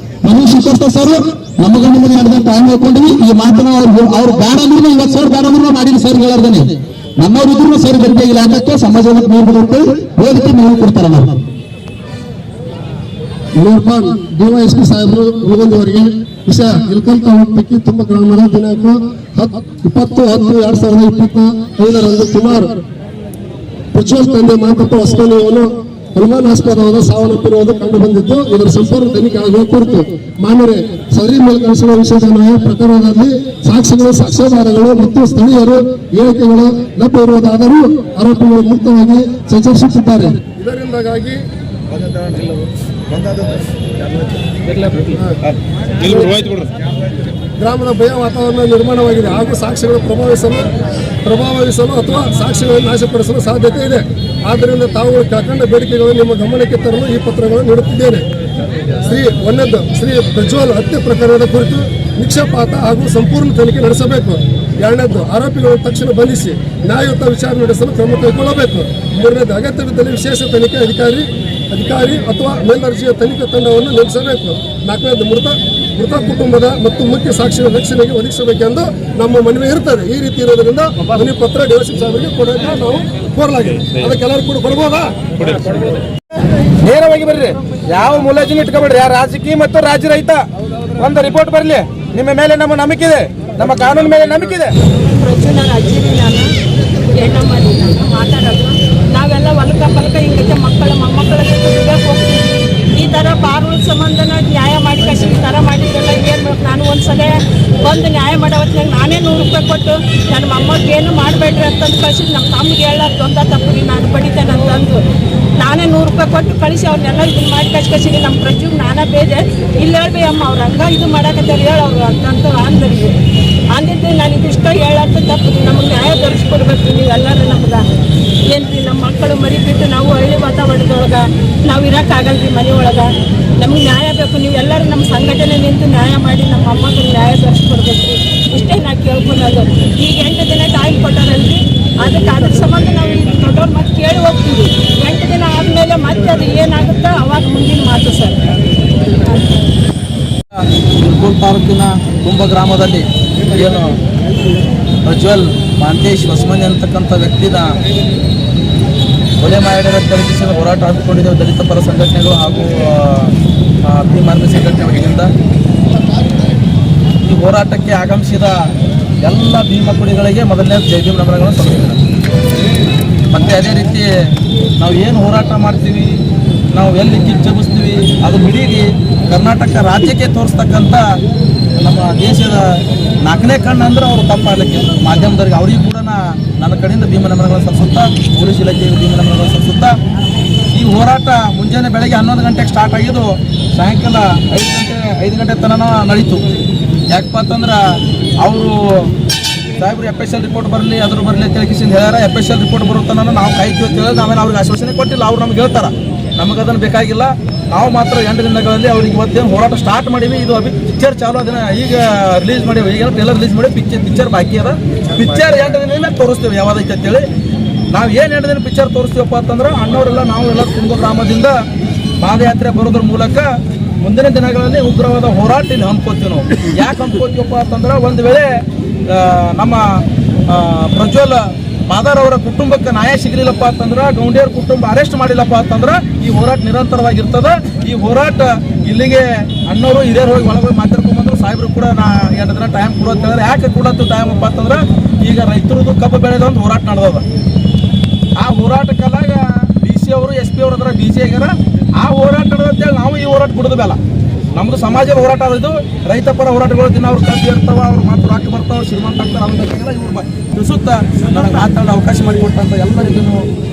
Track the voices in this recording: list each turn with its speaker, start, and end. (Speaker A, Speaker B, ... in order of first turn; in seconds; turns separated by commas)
Speaker A: 0.2-11.4, Speaker B: 13.6-22.7, Speaker B: 23.9-41.4, Speaker B: 46.0-46.5, Speaker B: 47.6-50.7, Speaker B: 51.2-58.2, Speaker B: 59.0-85.1, Speaker C: 88.0-89.5, Speaker C: 91.2-91.6, Speaker C: 92.2-93.0, Speaker D: 95.0-96.5, Speaker D: 97.1-115.0, Speaker D: 115.6-123.1, Speaker D: 123.7-127.8, Speaker D: 128.5-133.1, Speaker D: 133.6-148.4, Speaker E: 151.0-153.0, Speaker A: 153.5-153.8, Speaker E: 153.6-153.8, Speaker E: 155.1-157.7, Speaker A: 155.1-155.4, Speaker A: 156.1-156.4, Speaker E: 159.4-163.2, Speaker A: 159.4-159.8, Speaker A: 161.3-162.6, Speaker E: 163.9-165.3, Speaker A: 164.1-165.2, Speaker E: 167.2-168.5, Speaker A: 167.3-168.4, Speaker A: 169.2-172.0, Speaker E: 169.3-171.7, Speaker E: 173.3-174.0, Speaker A: 173.3-174.0, Speaker E: 174.8-176.1, Speaker A: 174.8-176.1, Speaker E: 176.7-181.0, Speaker A: 176.8-178.8, Speaker A: 179.3-181.0, Speaker E: 181.8-182.6, Speaker A: 181.8-182.6, Speaker E: 183.2-189.9, Speaker A: 183.3-186.1, Speaker A: 186.7-189.8, Speaker E: 190.7-192.9, Speaker A: 190.8-193.2, Speaker A: 193.8-196.4, Speaker E: 193.8-196.4, Speaker E: 197.1-197.6, Speaker A: 197.1-197.8, Speaker E: 198.4-198.7, Speaker E: 199.8-200.8, Speaker A: 199.8-217.2, Speaker E: 201.8-204.9, Speaker E: 205.5-205.9, Speaker E: 207.8-208.5, Speaker E: 210.3-211.1, Speaker E: 213.6-214.7, Speaker E: 216.0-216.5, Speaker A: 217.9-221.5, Speaker E: 218.9-219.7, Speaker E: 222.2-223.0, Speaker A: 222.2-223.4, Speaker A: 224.0-228.5, Speaker E: 224.1-225.6, Speaker E: 227.2-227.9, Speaker A: 229.2-229.8, Speaker A: 230.5-231.4, Speaker E: 231.9-233.1, Speaker A: 231.9-247.2, Speaker E: 239.7-240.7, Speaker E: 243.9-244.3, Speaker A: 248.4-251.5, Speaker A: 252.0-254.0, Speaker A: 254.6-263.4, Speaker E: 256.0-256.5, Speaker E: 261.0-263.4